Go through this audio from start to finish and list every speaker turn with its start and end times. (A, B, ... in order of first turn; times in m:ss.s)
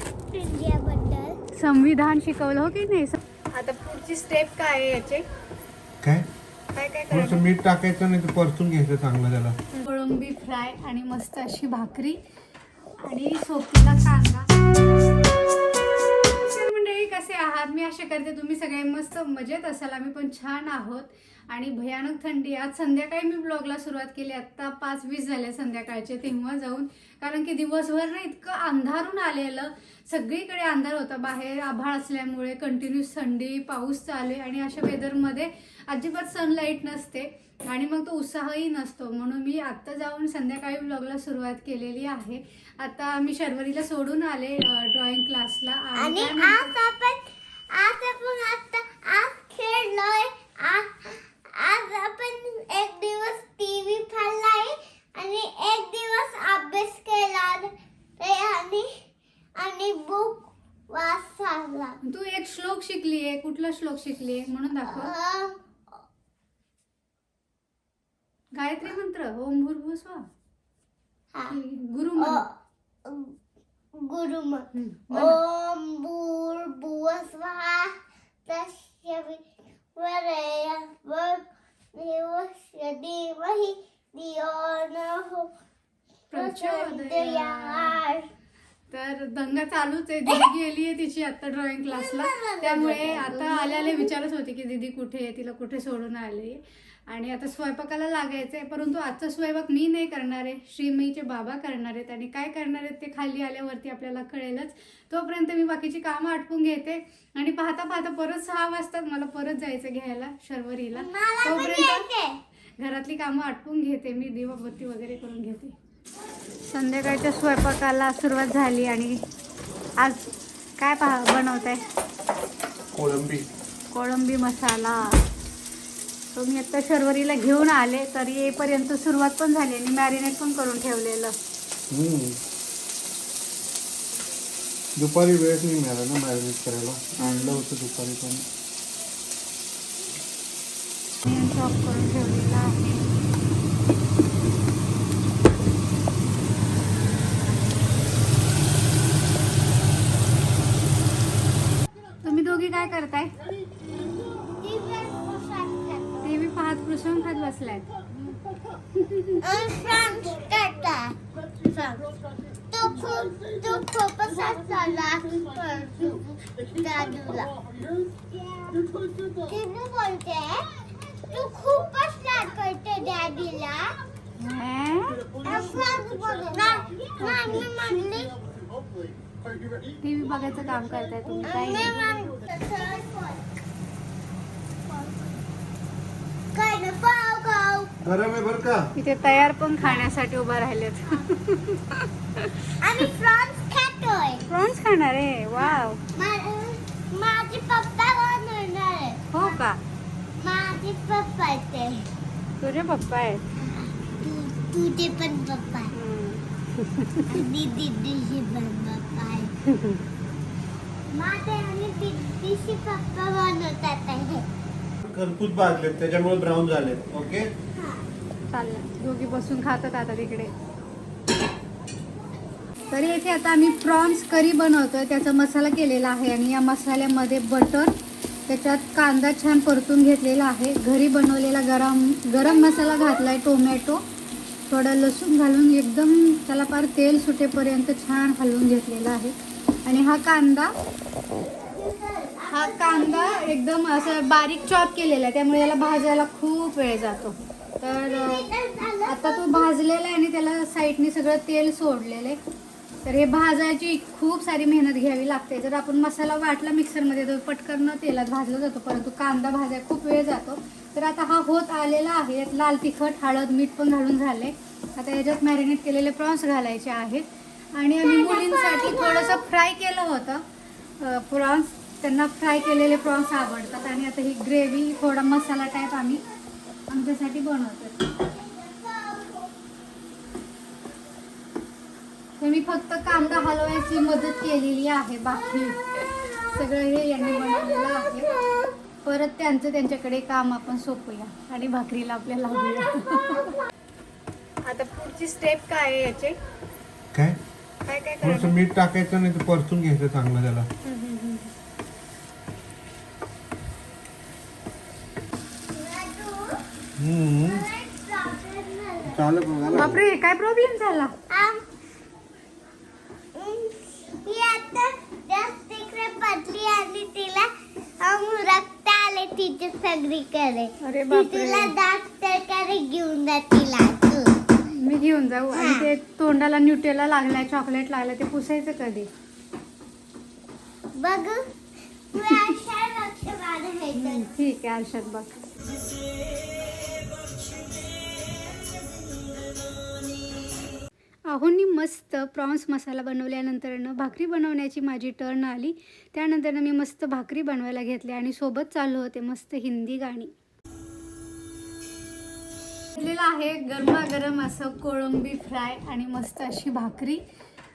0:00.3-0:01.4 A
0:01.5-0:05.2 B
0:06.0-0:06.3 C
0:06.7-0:07.4 B
0:07.1-0:09.6 C
0:09.7-0:12.2 B
0:13.0-0:14.5 B
0:16.4-0:46.7 B
0:46.0-0:47.2 A
0:47.7-0:58.9 A
0:59.6-1:02.0 A
1:02.0-1:05.1 B
1:04.9-1:05.6 A
1:08.5-1:10.3 B
1:11.5-1:12.4 B
1:12.2-1:12.5 A
1:13.0-1:13.3 A
1:14.0-1:17.9 A
1:14.7-1:15.4 B
1:18.4-1:19.4 A
1:19.9-1:25.5 A
1:26.3-1:28.0 B
1:26.3-1:28.3 A
1:28.9-1:52.1 B
1:31.9-1:34.1 A
1:50.9-1:52.4 A
1:52.8-1:55.7 B
1:56.6-1:59.2 B
2:00.0-2:01.8 B
2:02.9-2:03.5 C
2:03.9-2:05.2 B
2:06.3-2:11.4 B
2:11.9-2:12.4 C
2:15.0-2:18.4 C
2:17.2-2:17.6 B
2:21.2-2:23.1 B
2:32.2-2:33.3 B
2:34.0-2:36.4 A
2:36.2-2:37.9 B
2:38.9-2:39.4 B
2:39.4-2:42.1 A
2:42.7-2:47.6 A
2:48.3-2:53.9 A
2:54.4-2:55.3 B
2:55.4-2:58.4 A
2:57.2-2:57.7 B
3:00.0-3:02.0 B
3:01.4-3:03.4 A
3:06.5-3:07.9 A
3:08.0-3:08.9 C
3:09.0-3:12.7 B
3:12.8-3:14.4 A
3:14.5-3:16.0 B
3:15.6-3:19.6 A
3:19.3-3:19.8 B
3:20.4-3:22.1 A
3:22.6-3:23.4 B
3:23.6-3:25.9 A
3:25.9-3:27.4 B
3:27.3-3:29.5 A
3:29.7-3:30.0 B
3:31.1-3:34.4 A
3:35.0-3:37.5 C
3:38.5-3:40.5 B
3:42.9-3:47.9 B
3:48.5-3:54.0 B
3:52.4-3:53.2 A
3:54.7-4:00.7 B
4:01.5-4:03.5 A
4:02.5-4:08.4 B
4:07.9-4:09.7 A
4:09.0-4:12.4 B
4:13.0-4:30.4 B
4:28.0-4:29.4 A
4:31.0-4:36.2 B
4:36.9-4:38.1 B
4:38.2-4:39.5 A
4:42.4-4:45.8 B
4:46.0-4:46.3 A
4:46.5-4:48.3 B
4:47.9-4:48.4 A
4:49.0-4:53.6 B
4:54.6-4:56.4 B
4:57.1-4:57.4 C
4:57.8-4:58.6 B
4:58.2-5:00.7 C
5:00.8-5:01.5 B
5:05.7-5:06.6 A
5:07.0-5:07.6 C
5:07.4-5:09.2 A
5:09.1-5:10.0 C
5:09.7-5:11.1 B
5:11.3-5:11.6 A
5:13.3-5:17.5 A
5:18.0-5:24.4 A
5:20.8-5:21.7 B
5:24.6-5:29.1 B
5:25.5-5:25.9 A
5:31.0-5:31.4 A
5:32.1-5:34.3 A
5:32.2-5:32.5 B
5:33.9-5:35.4 B
5:41.3-5:50.3 B
5:52.9-5:57.2 B